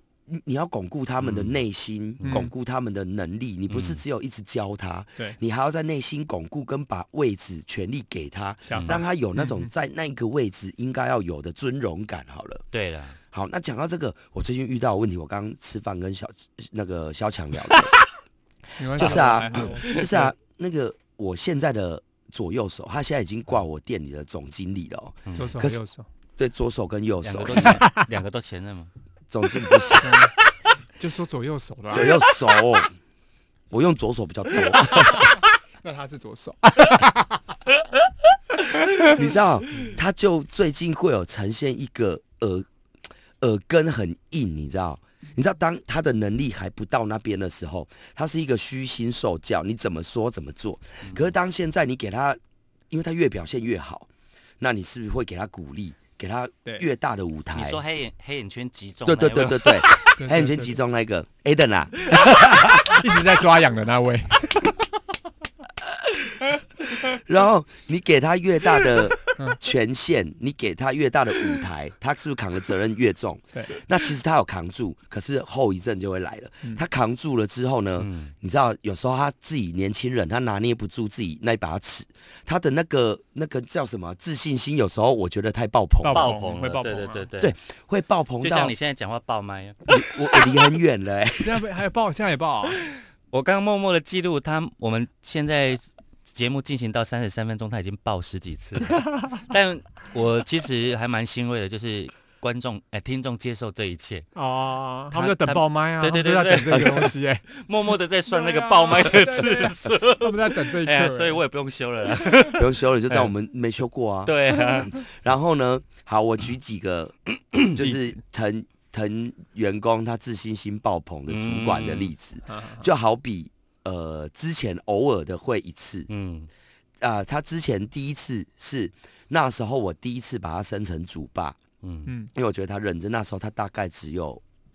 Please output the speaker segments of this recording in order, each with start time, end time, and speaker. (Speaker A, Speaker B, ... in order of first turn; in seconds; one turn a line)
Speaker A: 0.3-12.6
Speaker B: 1.2-1.6
Speaker B: 2.2-2.5
Speaker C: 2.2-2.5
Speaker B: 3.7-4.0
Speaker C: 8.6-9.7
Speaker B: 8.7-9.0
Speaker B: 12.7-13.2
Speaker A: 13.3-18.0
Speaker C: 18.8-20.3
Speaker A: 18.9-25.8
Speaker B: 19.0-20.0
Speaker C: 25.3-26.1
Speaker A: 26.4-27.8
Speaker B: 27.2-28.9
Speaker C: 27.7-28.1
Speaker A: 29.3-30.3
Speaker B: 29.6-30.0
Speaker C: 30.0-30.3
Speaker C: 31.0-32.3
Speaker A: 31.9-32.9
Speaker A: 33.7-35.4
Speaker C: 34.8-37.4
Speaker C: 38.9-39.2
Speaker A: 39.0-42.7
Speaker A: 43.4-52.4
Speaker B: 51.0-51.3
Speaker A: 52.9-54.1
Speaker A: 54.6-57.8
Speaker B: 57.5-59.8
Speaker A: 59.0-63.1
Speaker C: 59.9-60.8
Speaker C: 62.6-64.8
Speaker A: 65.8-86.3
Speaker B: 78.0-78.3
Speaker C: 86.0-87.3
Speaker B: 86.0-87.5
Speaker A: 87.4-88.7
Speaker B: 88.4-90.6
Speaker A: 89.9-91.6
Speaker C: 91.4-92.8
Speaker B: 93.3-104.3
Speaker C: 98.9-99.4
Speaker C: 104.3-107.4
Speaker B: 105.1-113.3
Speaker A: 106.7-107.1
Speaker C: 108.3-111.4
Speaker A: 112.4-126.1
Speaker B: 114.2-115.0
Speaker B: 117.8-118.1
Speaker B: 121.3-122.1
Speaker C: 122.5-122.8
Speaker B: 126.1-126.5
Speaker A: 127.0-131.6
Speaker B: 131.8-132.1
Speaker A: 132.3-134.4